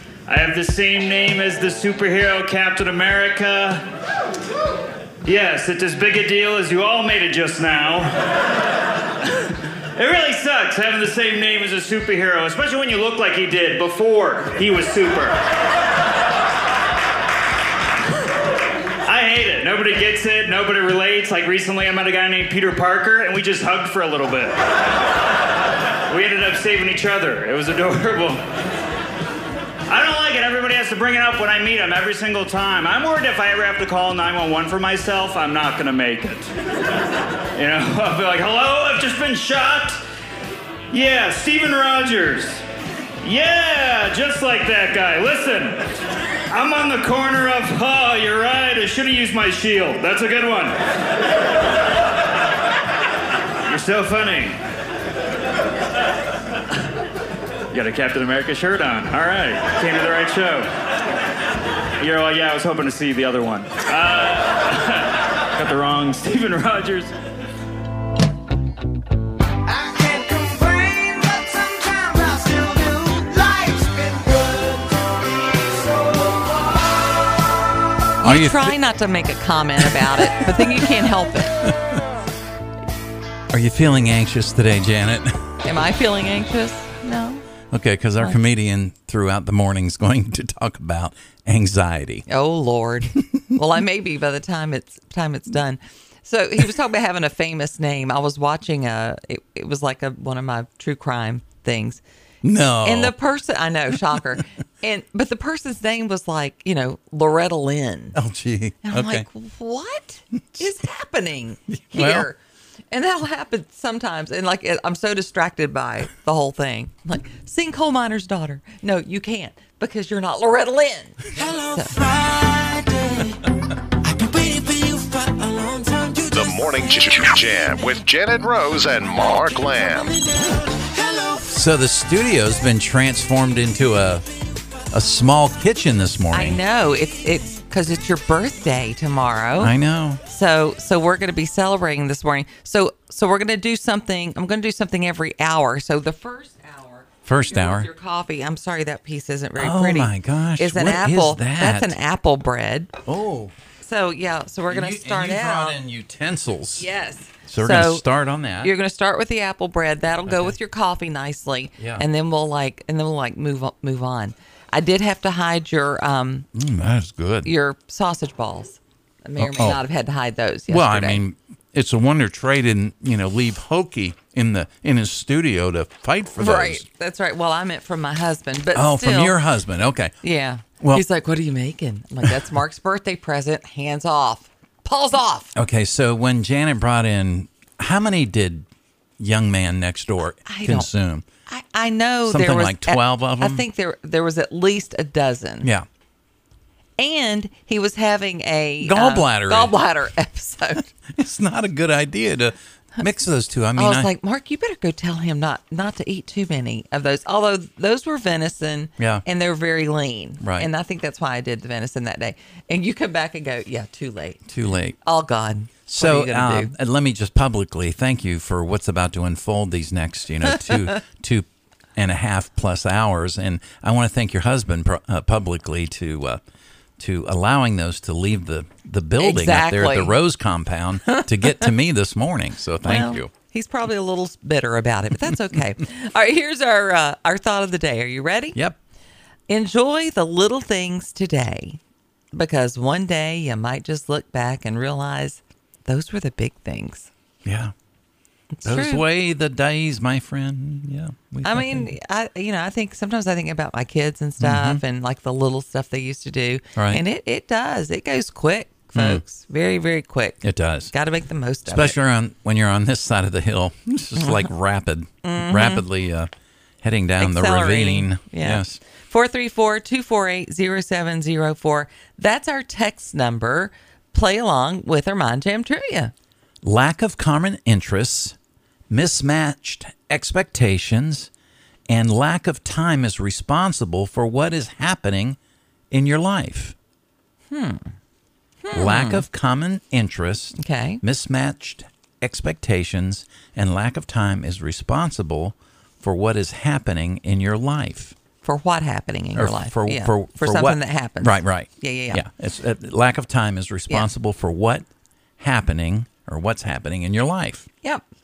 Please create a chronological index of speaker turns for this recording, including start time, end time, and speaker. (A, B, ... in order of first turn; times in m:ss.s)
0:00.3-0:03.8 A
0:05.2-0:08.1 A
0:10.0-0:15.4 A
0:19.0-0:24.6 A
0:26.1-0:28.4 A
0:29.9-0:36.5 A
0:37.5-0:40.0 A
0:40.9-0:42.6 A
0:43.2-0:45.8 A
0:46.5-0:50.8 A
0:53.6-0:54.6 A
0:57.7-1:00.7 A
1:02.0-1:07.1 A
1:18.2-1:18.7 B
1:18.2-1:21.6 C
1:21.6-1:22.0 B
1:23.5-1:25.4 B
1:25.6-1:27.4 C
1:27.7-1:32.2 B
1:32.3-1:42.0 C
1:42.4-1:43.1 B
1:42.8-1:48.2 C
1:48.1-1:49.2 B
1:48.8-1:52.4 C
1:51.7-1:52.3 B
1:52.9-2:01.2 C
2:01.3-2:03.4 D
2:04.0-2:06.7 D
2:06.3-2:10.1 E
2:10.4-2:11.4 D
2:11.5-2:14.2 B
2:14.9-2:16.6 B
2:16.3-2:19.7 C
2:19.6-2:20.2 B
2:20.2-2:32.9 C
2:27.2-2:27.9 B
2:29.6-2:31.9 B
2:33.0-2:33.5 B
2:33.8-2:35.8 C
2:34.7-2:36.9 B
2:36.8-2:38.0 C
2:37.5-2:38.7 B
2:38.6-2:46.4 C
2:40.3-2:40.6 B
2:41.8-2:42.0 B
2:46.5-2:47.5 B
2:47.4-2:51.2 C
2:49.4-2:49.8 B
2:50.7-2:56.8 B
2:56.4-2:59.4 C
2:58.7-3:00.1 B
3:00.2-3:05.5 C
3:05.5-3:08.7 B
3:09.2-3:11.2 B
3:10.4-3:10.9 C
3:11.5-3:15.7 C
3:12.2-3:13.6 B
3:17.0-3:20.9 C
3:18.8-3:19.7 B
3:21.2-3:24.1 B
3:23.8-3:34.4 C
3:29.0-3:29.2 B
3:30.4-3:30.7 B
3:34.5-3:35.0 B
3:35.0-3:36.7 C
3:35.9-3:46.4 B
3:47.0-3:53.3 B
3:49.2-3:50.1 C
3:51.1-3:51.7 C
3:52.8-3:58.6 C
3:59.5-4:01.8 C
4:02.3-4:07.1 C
4:07.4-4:07.7 B
4:08.5-4:09.0 C
4:08.6-4:11.9 B
4:11.4-4:22.0 C
4:14.4-4:14.8 B
4:16.8-4:17.0 B
4:18.9-4:19.2 B
4:20.4-4:20.9 B
4:21.7-4:26.3 B
4:24.2-4:24.5 C
4:25.2-4:25.8 C
4:26.8-4:28.8 B
4:27.2-4:36.1 C
4:36.6-4:38.4 B
4:38.9-4:41.3 B
4:41.9-4:45.4 B
4:45.9-4:46.7 B
4:47.5-4:47.9 C
4:48.6-4:49.2 C
4:48.7-4:58.1 B
4:50.6-4:51.0 C
4:58.4-5:02.2 C
4:59.3-5:04.8 B
5:05.4-5:07.7 B